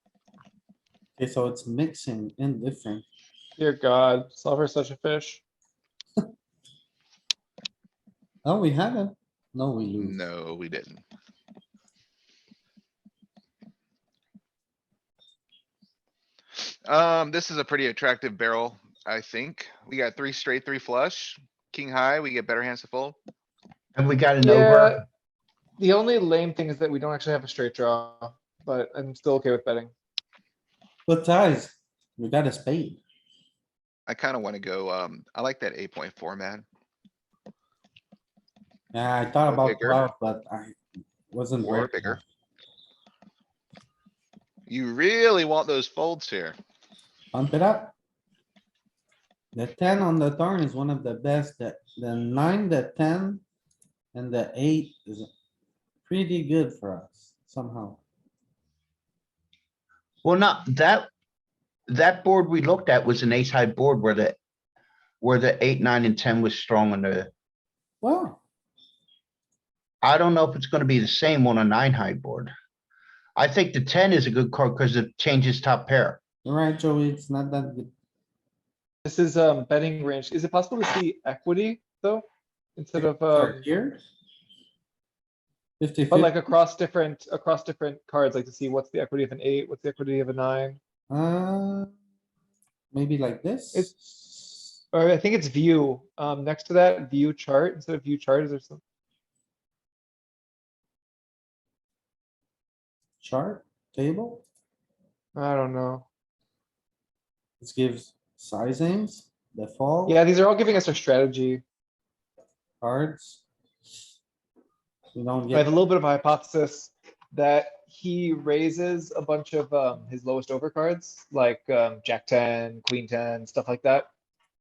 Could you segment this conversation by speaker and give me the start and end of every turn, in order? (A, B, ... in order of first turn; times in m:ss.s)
0:01.2-0:03.0 A
0:03.6-0:05.4 B
0:08.4-0:10.2 A
0:10.0-0:11.0 C
0:16.6-0:23.2 C
0:24.0-0:25.0 D
0:24.4-0:25.0 B
0:25.8-0:29.9 B
0:31.1-0:33.0 A
0:34.1-0:36.6 C
0:38.9-0:42.2 A
0:39.5-0:40.0 C
0:41.6-0:42.2 C
0:44.7-0:46.6 C
0:47.3-0:47.9 A
0:49.5-0:53.4 A
0:54.1-0:55.3 A
0:56.0-0:58.0 A
1:00.2-1:01.1 D
1:01.9-1:04.4 D
1:05.2-1:07.3 D
1:08.0-1:08.4 A
1:10.0-1:12.5 D
1:13.4-1:16.2 D
1:16.4-1:17.9 A
1:19.0-1:23.6 B
1:23.0-1:24.0 A
1:25.8-1:26.4 A
1:26.1-1:30.8 B
1:31.1-1:31.9 A
1:32.9-1:34.6 A
1:34.9-1:38.8 B
1:43.2-1:44.4 A
1:45.4-1:46.1 B
1:47.6-1:50.2 A
1:50.0-1:51.6 B
1:52.8-1:53.4 A
1:55.1-1:55.7 A
1:55.5-2:04.1 B